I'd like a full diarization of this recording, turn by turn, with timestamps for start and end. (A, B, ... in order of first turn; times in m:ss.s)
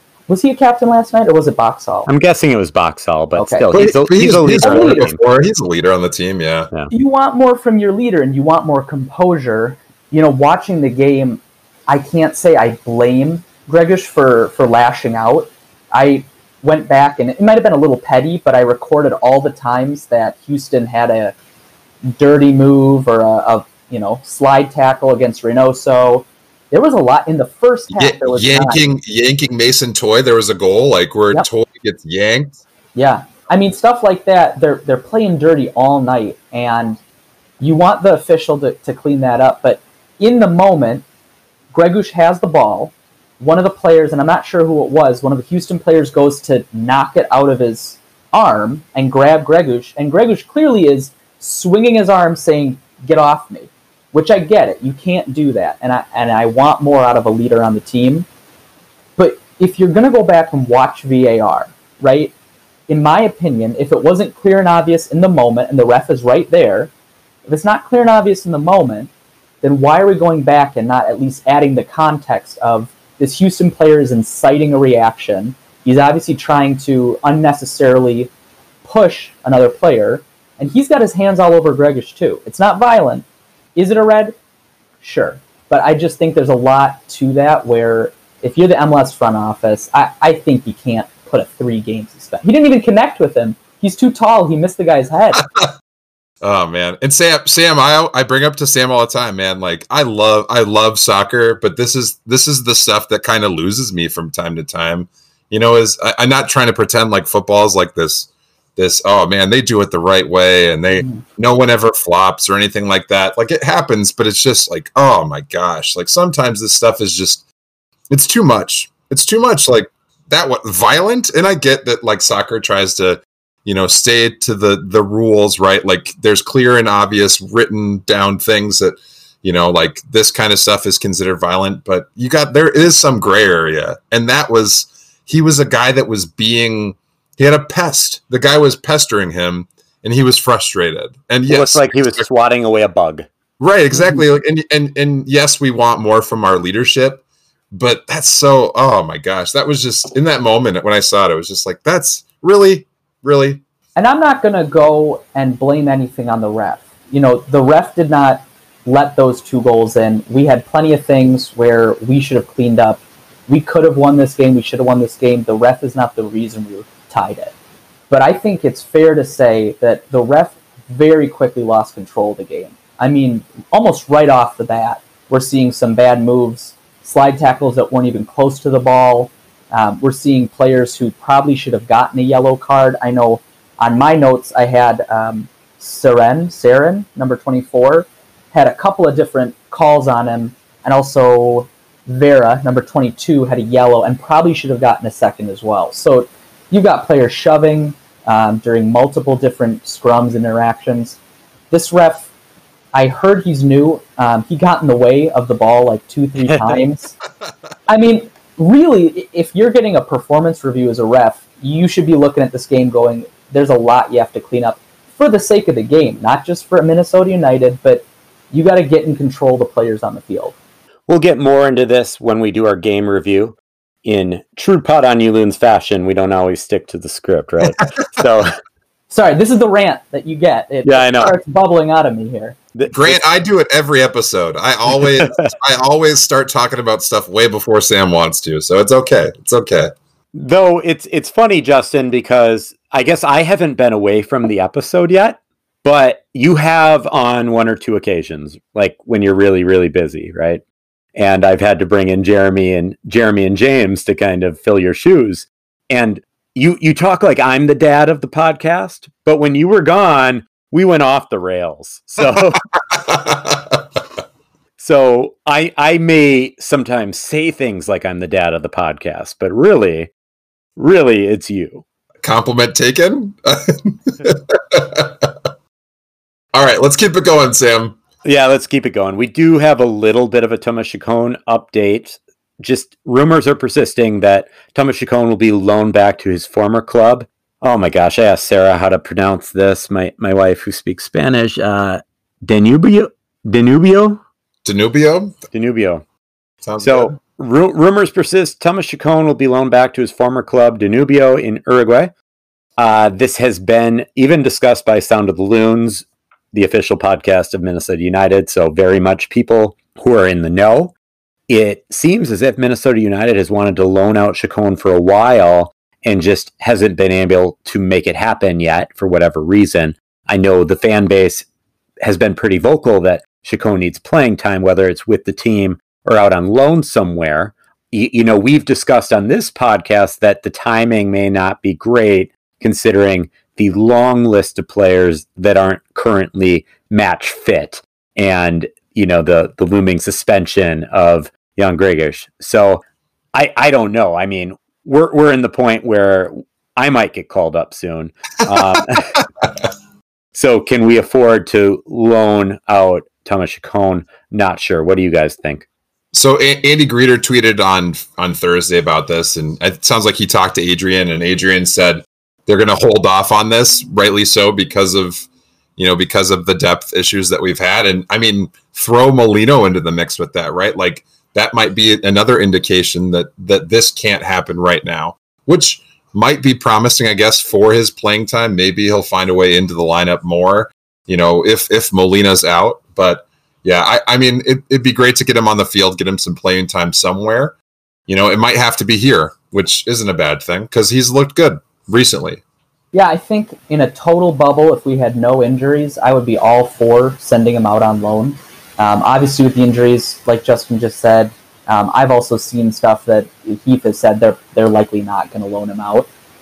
0:00.3-0:02.1 A
0:02.1-0:05.2 B
0:03.4-0:03.7 A
0:03.7-0:06.7 C
0:04.6-0:05.1 A
0:06.9-0:21.3 A
0:22.2-0:28.9 A
0:27.9-0:32.6 C
0:33.0-0:37.0 A
0:37.6-0:41.0 A
0:41.7-0:58.2 A
0:59.2-1:02.3 A
1:02.9-1:06.9 A
1:07.4-1:09.1 A
1:09.6-1:18.3 A
1:18.8-1:23.2 A
1:23.8-1:24.4 A
1:25.0-1:35.4 A
1:35.4-1:35.7 C
1:36.4-1:57.4 C
1:58.1-2:22.2 C
2:21.5-2:23.2 B
2:23.6-2:33.6 C
2:34.0-2:47.5 A
2:48.1-3:21.2 A
3:21.7-3:22.3 A
3:22.9-3:27.1 A
3:26.5-3:26.8 B
3:27.9-3:40.6 A
3:41.1-3:48.6 B
3:49.1-3:52.6 A
3:50.8-3:51.3 B
3:52.7-3:53.2 B
3:52.9-3:59.9 C
3:54.9-3:55.5 B
4:00.3-4:10.6 B
4:11.1-4:22.6 B
4:22.9-4:23.7 C
4:24.8-4:30.1 B
4:30.8-4:31.8 B
4:32.2-4:35.3 C
4:36.5-4:38.0 C
4:38.2-4:54.2 B
4:54.6-4:55.4 C
4:55.5-4:56.0 B
4:56.6-4:57.2 C
4:56.8-5:02.1 B
5:02.8-5:10.9 B
5:11.5-5:21.4 B
5:22.0-5:42.8 B
5:43.3-5:49.2 B
5:50.3-5:55.6 B
5:56.1-6:05.2 C
6:05.8-6:27.6 C
6:28.1-6:32.4 C
6:32.9-6:46.1 A